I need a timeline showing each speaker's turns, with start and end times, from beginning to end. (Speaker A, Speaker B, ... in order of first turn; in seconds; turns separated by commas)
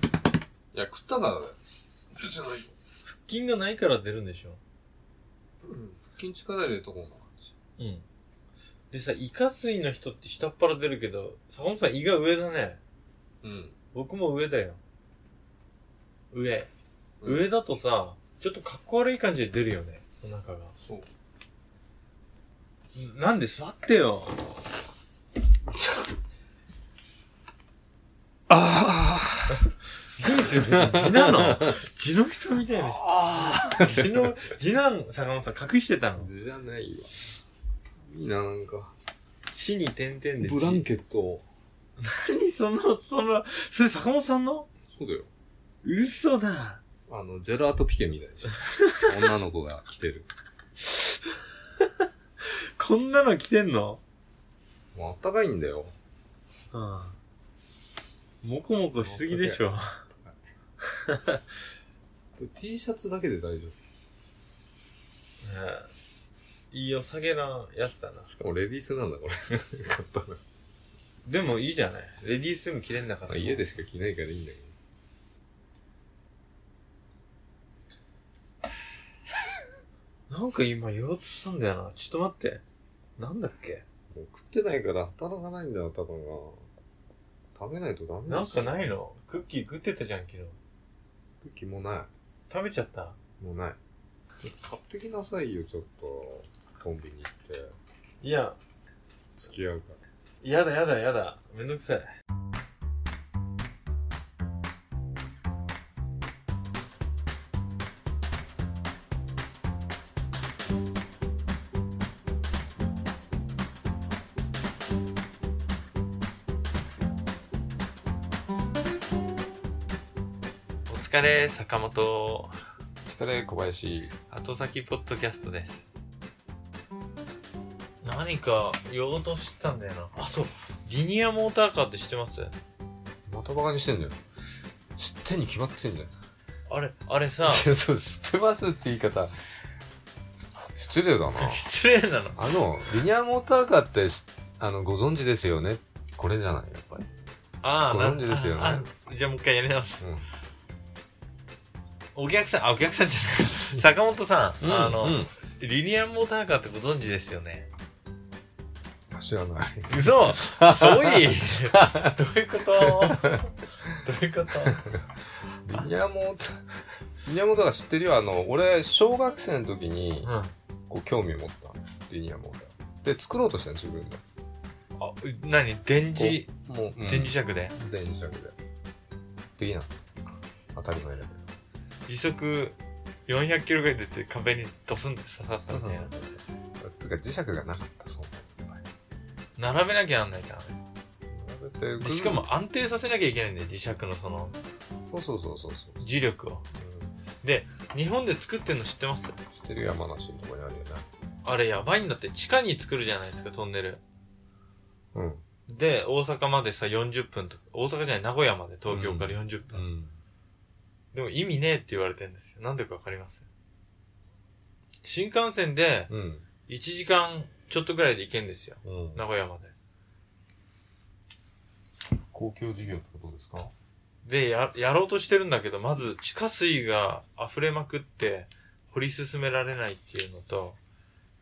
Speaker A: 0.7-1.6, Speaker A: 2.1-2.7, Speaker B: 3.1-4.6, Speaker A: 5.6-7.5, Speaker B: 7.8-8.1, Speaker B: 8.9-12.8, Speaker A: 13.4-13.8, Speaker B: 13.9-14.8, Speaker B: 16.3-16.7, Speaker A: 17.2-17.5, Speaker B: 17.2-20.8, Speaker A: 20.8-21.1, Speaker B: 22.9-24.5, Speaker A: 28.5-31.8, Speaker B: 30.2-36.3, Speaker A: 32.7-34.3, Speaker A: 36.2-37.2, Speaker A: 38.0-38.9, Speaker B: 39.5-40.9, Speaker A: 40.4-41.5, Speaker B: 42.0-44.7, Speaker A: 44.9-45.3, Speaker B: 45.8-46.8, Speaker A: 47.1-50.3, Speaker B: 48.6-49.1, Speaker B: 51.8-54.0, Speaker A: 54.9-56.0, Speaker B: 56.7-57.2, Speaker B: 58.4-60.0, Speaker A: 59.0-60.4, Speaker B: 60.9-61.4, Speaker A: 62.4-63.8, Speaker B: 65.4-65.9, Speaker B: 66.7-68.3, Speaker A: 68.3-70.4, Speaker B: 71.3-73.7, Speaker A: 73.3-74.7, Speaker B: 80.3-82.6, Speaker B: 83.2-83.8, Speaker A: 84.1-86.7, Speaker A: 87.5-88.9, Speaker B: 88.3-90.6, Speaker A: 91.4-92.1, Speaker B: 92.5-93.2, Speaker A: 93.4-93.8, Speaker A: 94.4-97.8, Speaker B: 98.2-98.6, Speaker A: 99.4-100.0, Speaker B: 100.4-102.1, Speaker B: 120.9-122.5, Speaker A: 123.1-124.1, Speaker B: 124.3-125.8, Speaker B: 128.0-132.5, Speaker A: 133.3-134.2, Speaker A: 135.0-136.1, Speaker B: 136.7-137.7, Speaker A: 137.4-139.3, Speaker A: 140.7-141.7, Speaker B: 141.4-142.4, Speaker A: 142.4-147.1, Speaker B: 147.6-150.0, Speaker A: 147.9-148.8, Speaker A: 150.0-150.3, Speaker B: 152.2-157.7, Speaker A: 154.6-155.3, Speaker A: 159.1-162.2, Speaker B: 159.9-164.8, Speaker A: 162.8-163.9, Speaker A: 164.5-166.6, Speaker A: 167.2-170.3, Speaker B: 170.2-170.5, Speaker A: 170.9-174.2, Speaker B: 175.0-176.5, Speaker A: 176.2-178.6, Speaker B: 177.0-177.7, Speaker A: 179.6-180.1, Speaker A: 180.7-181.5, Speaker B: 182.1-182.8, Speaker B: 183.3-186.1, Speaker A: 185.7-188.8, Speaker B: 189.6-190.8, Speaker A: 191.3-192.5, Speaker B: 192.0-194.6, Speaker A: 195.1-196.0, Speaker B: 196.0-196.7, Speaker A: 196.7-197.1, Speaker B: 197.4-199.4, Speaker A: 199.5-201.1, Speaker B: 201.4-204.0, Speaker A: 205.1-205.4, Speaker B: 205.7-209.8, Speaker A: 208.9-210.2, Speaker B: 211.1-213.5, Speaker B: 215.0-216.1, Speaker A: 216.1-216.4, Speaker B: 216.7-219.7, Speaker A: 218.8-219.2, Speaker A: 222.3-223.7, Speaker B: 224.2-230.8